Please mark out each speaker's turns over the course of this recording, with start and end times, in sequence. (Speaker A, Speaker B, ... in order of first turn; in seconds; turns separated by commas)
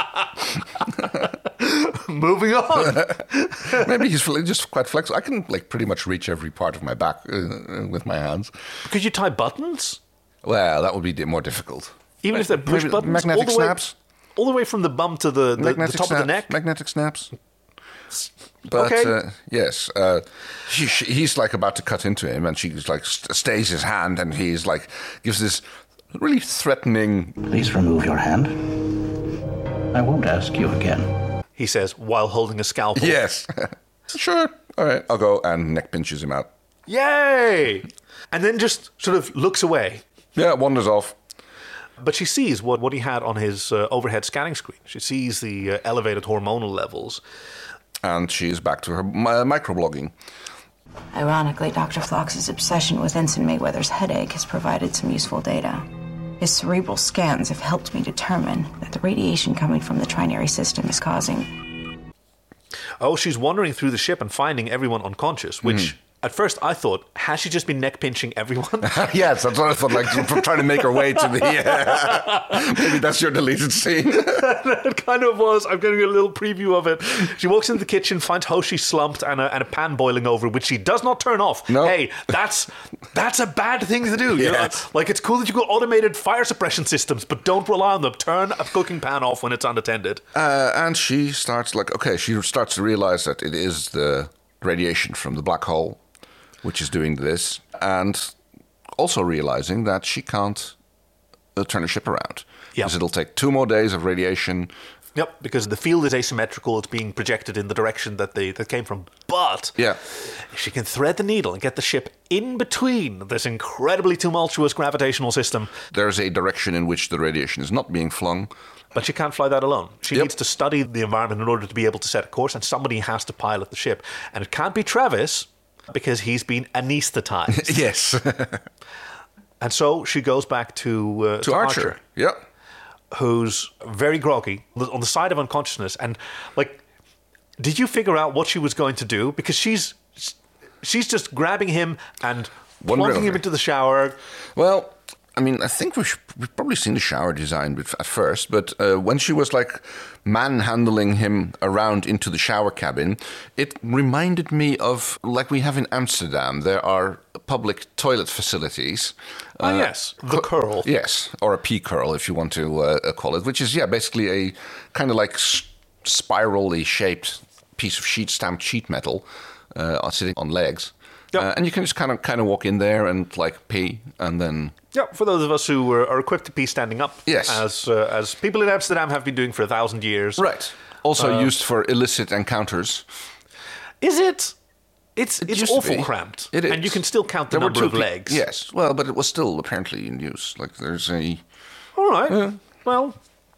Speaker A: 1.4-3.8, Speaker B: 2.9-8.5, Speaker A: 8.8-10.0, Speaker B: 10.4-13.9, Speaker A: 12.2-13.8, Speaker A: 14.3-16.5, Speaker B: 15.6-17.3, Speaker B: 18.7-27.4, Speaker A: 18.7-19.1, Speaker C: 27.4-29.1, Speaker C: 29.9-31.1, Speaker A: 31.6-33.2, Speaker B: 33.0-36.5, Speaker A: 36.9-40.0, Speaker B: 40.4-41.1, Speaker A: 42.0-47.2, Speaker B: 48.0-50.1, Speaker D: 51.1-55.9, Speaker D: 56.4-61.5, Speaker A: 63.0-69.2, Speaker B: 65.6-65.9, Speaker B: 68.8-74.4, Speaker A: 70.0-73.0, Speaker A: 74.2-90.2, Speaker B: 81.7-82.0, Speaker B: 84.3-84.8, Speaker B: 90.3-96.0, Speaker B: 96.6-98.3, Speaker B: 99.0-100.7, Speaker B: 101.5-104.7, Speaker A: 105.1-109.8, Speaker A: 110.5-115.7, Speaker B: 115.9-118.5, Speaker A: 118.9-127.8, Speaker B: 127.5-128.6, Speaker A: 129.6-132.0, Speaker B: 131.4-132.4, Speaker A: 133.1-136.8, Speaker A: 137.6-144.2, Speaker B: 142.8-143.4, Speaker B: 144.6-174.7, Speaker A: 159.6-160.9, Speaker A: 174.9-180.4, Speaker B: 177.2-177.6, Speaker B: 180.4-183.0, Speaker A: 181.2-181.5, Speaker A: 184.0-184.5, Speaker A: 185.2-188.4, Speaker B: 185.4-191.4, Speaker A: 191.9-193.1, Speaker B: 192.3-192.6